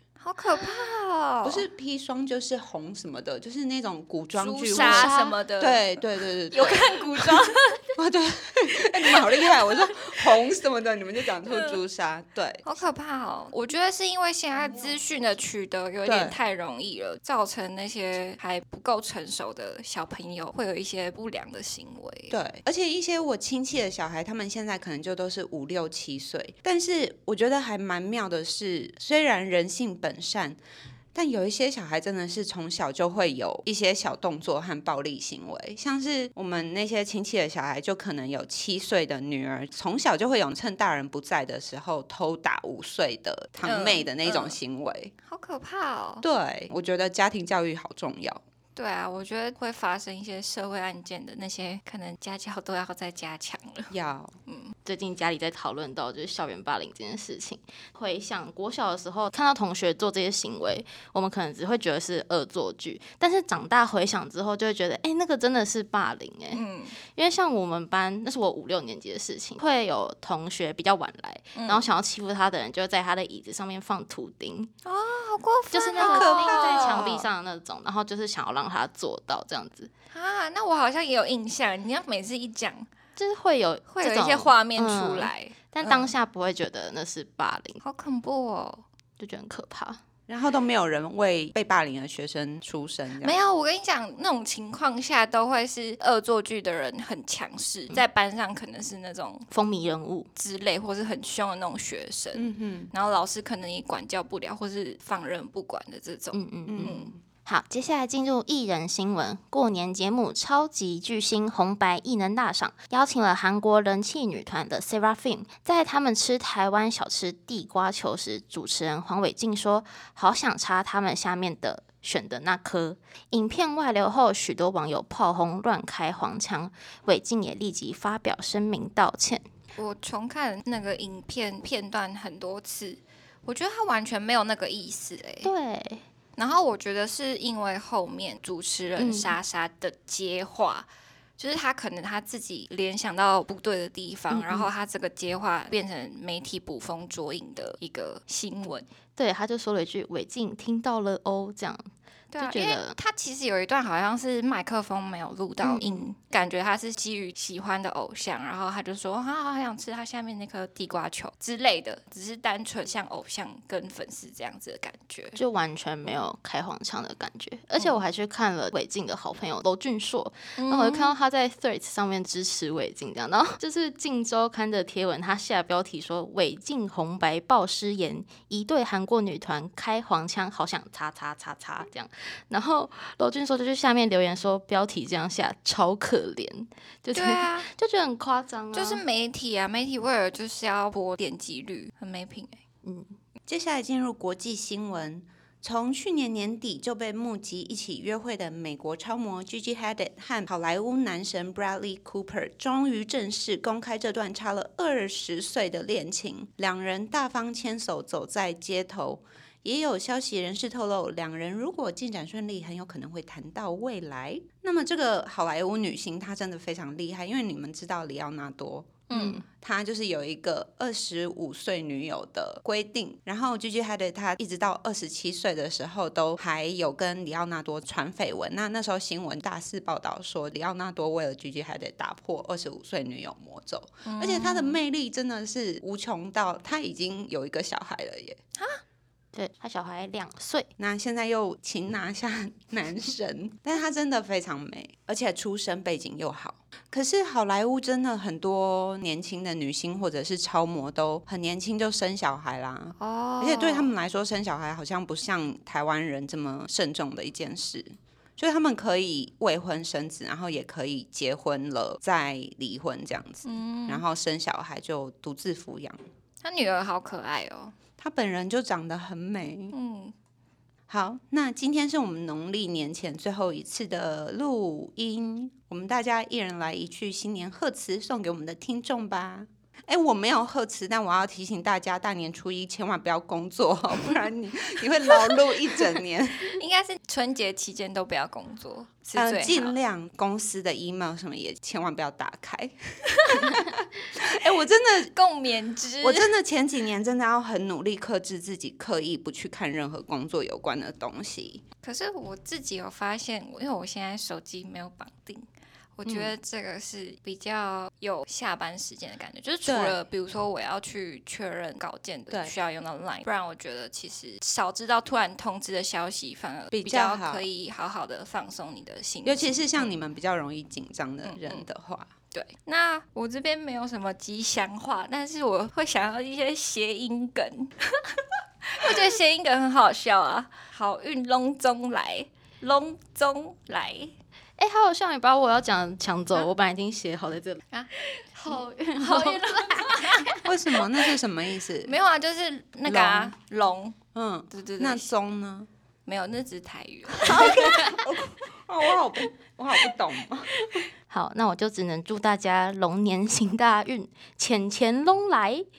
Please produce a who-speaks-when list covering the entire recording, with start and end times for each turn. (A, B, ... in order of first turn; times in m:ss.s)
0:00.2-0:01.6 A
0:01.4-0:07.4 B
0:04.3-0:05.9 A
0:06.5-0:07.8 A
0:08.0-0:12.6 B
0:09.1-0:10.1 A
0:11.4-0:11.8 A
0:12.6-0:22.4 A
0:16.0-0:16.4 B
0:22.3-0:30.6 B
0:31.1-0:45.1 B
0:43.6-0:44.6 A
0:45.3-0:46.2 A
0:46.2-0:48.4 B
0:48.7-0:53.9 A
0:53.9-0:54.3 B
0:54.5-0:54.7 A
0:54.8-1:14.7 C
1:06.5-1:07.0 A
1:11.5-1:11.9 A
1:14.8-1:17.2 A
1:15.7-1:19.9 C
1:16.0-1:17.3 B
1:20.1-1:22.9 A
1:23.2-1:27.8 C
1:23.9-1:26.1 A
1:27.8-1:28.8 A
1:29.2-1:30.0 C
1:30.3-1:33.4 B
1:33.2-1:39.5 A
1:39.5-1:40.3 C
1:40.3-1:47.1 A
1:42.3-1:42.9 B
1:46.3-2:09.4 C
1:46.7-1:47.2 B
2:09.8-2:15.5 A
2:15.4-2:16.0 C
2:16.4-2:28.9 A
2:19.0-2:19.4 C
2:24.3-2:24.7 C
2:29.2-2:33.0 C
2:32.3-2:45.4 A
2:35.6-2:36.0 C
2:45.3-3:09.0 C
2:47.7-2:48.0 A
2:50.6-2:51.2 A
3:07.1-3:07.7 A
3:08.7-3:12.6 A
3:12.8-3:13.1 C
3:13.5-3:58.4 B
3:39.1-3:39.4 A
3:39.1-3:39.4 C
3:54.0-3:54.8 A
3:59.3-4:00.7 C
4:00.8-4:26.0 B
4:13.0-4:13.9 A
4:23.4-4:24.0 A
4:26.4-4:27.7 A
4:28.0-4:29.7 B
4:29.7-4:30.1 A
4:30.9-4:46.5 B
4:45.3-4:45.8 A
4:46.5-4:49.8 A
4:49.1-4:55.1 B
4:53.2-4:53.6 A
4:55.1-4:56.3 A
4:56.0-5:01.6 B
5:01.8-5:19.9 A
5:06.0-5:06.3 B
5:09.6-5:10.0 B
5:12.3-5:12.6 B
5:16.7-5:17.5 B
5:19.2-5:22.1 B
5:21.2-5:21.6 A
5:22.3-5:34.1 A
5:34.6-5:37.6 C
5:37.7-5:41.1 A
5:38.4-5:40.5 C
5:40.4-5:42.0 B
5:41.8-5:44.0 A
5:42.8-5:43.3 B
5:44.1-5:45.7 B
5:44.5-5:45.1 A
5:46.0-5:48.1 A
5:47.3-5:50.6 B
5:47.4-5:47.7 C
5:51.1-5:55.6 C